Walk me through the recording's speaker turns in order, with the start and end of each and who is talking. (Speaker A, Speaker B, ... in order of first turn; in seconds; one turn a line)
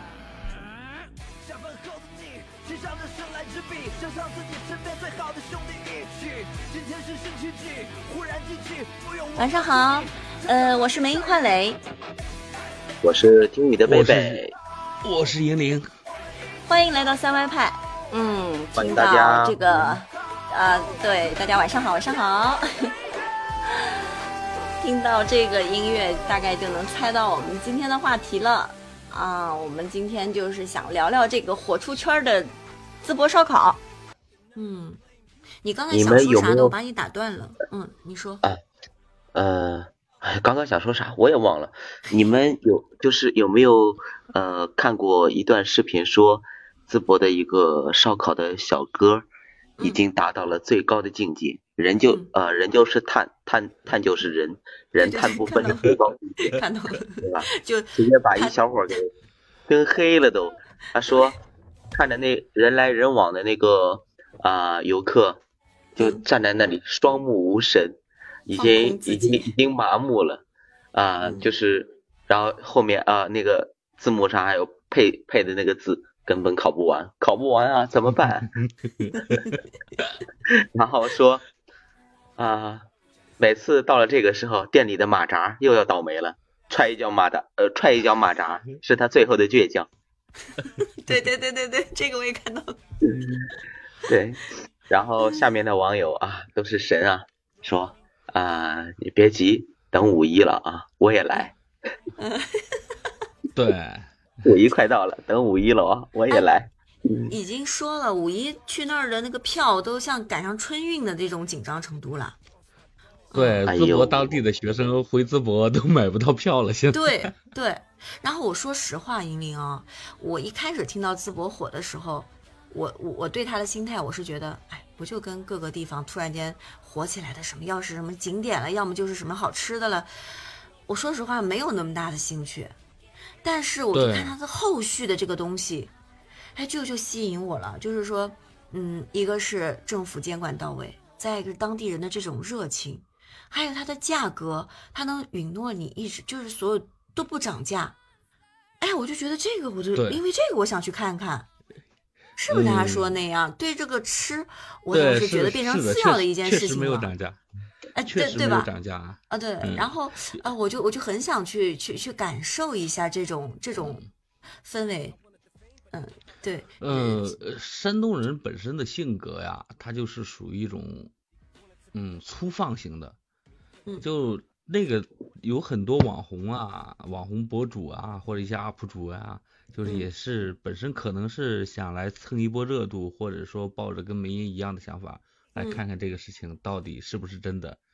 Speaker A: 1.4-10.2
Speaker B: 9.4-11.8
Speaker C: 13.0-14.5
Speaker D: 13.8-14.4
Speaker D: 15.0-15.9
Speaker B: 16.7-22.9
Speaker C: 18.8-20.0
Speaker B: 23.7-24.0
Speaker B: 24.8-33.8
Speaker B: 34.6-35.0
Speaker B: 35.6-38.4
Speaker C: 35.9-36.7
Speaker C: 39.4-49.3
Speaker C: 49.8-56.6
Speaker B: 55.0-58.6
Speaker C: 57.2-59.1
Speaker C: 59.7-61.4
Speaker C: 61.9-65.4
Speaker C: 66.0-70.4
Speaker B: 66.0-66.2
Speaker B: 68.5-69.5
Speaker C: 70.9-78.5
Speaker B: 71.2-71.5
Speaker D: 78.2-80.1
Speaker B: 79.1-79.5
Speaker C: 80.5-81.5
Speaker C: 82.4-82.8
Speaker C: 83.4-89.9
Speaker B: 90.8-92.8
Speaker C: 93.0-93.5
Speaker C: 94.1-101.5
Speaker B: 102.2-102.9
Speaker D: 103.5-104.1
Speaker C: 104.4-107.3
Speaker B: 107.3-112.4
Speaker B: 113.3-113.7
Speaker D: 113.3-117.3
Speaker C: 113.7-114.4
Speaker B: 116.9-130.1
Speaker B: 130.9-132.8
Speaker B: 133.4-135.9
Speaker D: 133.9-134.3
Speaker B: 136.6-148.0
Speaker B: 148.8-151.5
Speaker D: 149.9-150.2
Speaker B: 152.4-157.1
Speaker D: 152.5-153.2
Speaker D: 154.9-157.4
Speaker B: 157.9-158.7
Speaker D: 158.0-160.4
Speaker B: 159.3-164.0
Speaker D: 163.8-164.1
Speaker B: 164.6-165.2
Speaker B: 165.9-167.3
Speaker D: 166.8-171.1
Speaker D: 171.9-173.2
Speaker D: 174.0-187.8